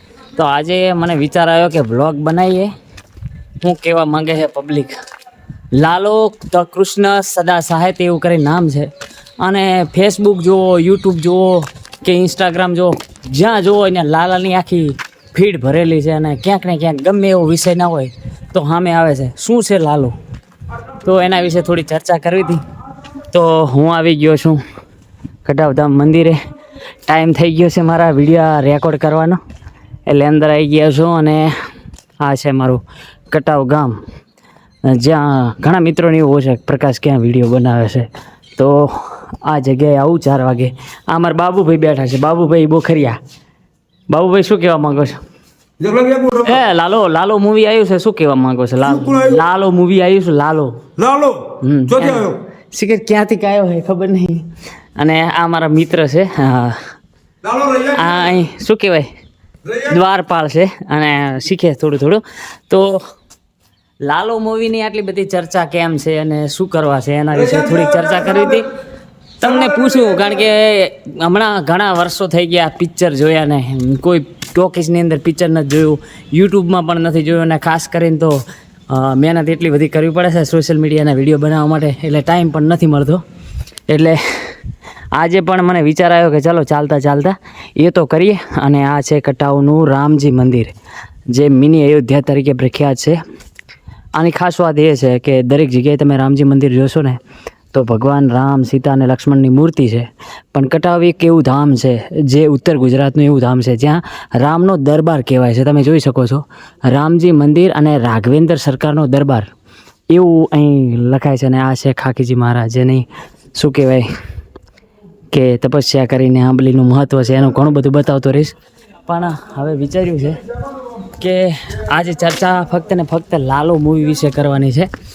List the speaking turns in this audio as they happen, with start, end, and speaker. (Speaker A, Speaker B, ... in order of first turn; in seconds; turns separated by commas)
Speaker A: 0.3-2.7, Speaker A: 3.6-5.0, Speaker A: 5.7-20.1, Speaker A: 21.0-22.6, Speaker A: 23.3-24.6, Speaker A: 25.4-26.4, Speaker A: 27.1-29.4, Speaker A: 30.1-31.5, Speaker A: 32.2-34.0, Speaker A: 34.9-43.2, Speaker A: 44.1-45.2, Speaker B: 45.8-46.6, Speaker A: 46.4-50.9, Speaker B: 49.0-49.4, Speaker B: 51.0-52.4, Speaker A: 51.6-56.8, Speaker B: 57.5-58.0, Speaker A: 57.7-59.1, Speaker A: 59.7-63.0, Speaker A: 64.0-68.7, Speaker B: 67.6-67.9, Speaker A: 69.4-83.2, Speaker A: 83.9-84.5, Speaker A: 85.1-90.7, Speaker A: 91.3-93.2, Speaker A: 94.2-97.2, Speaker A: 97.7-109.5, Speaker A: 110.1-114.1, Speaker A: 115.3-120.4, Speaker A: 121.1-124.9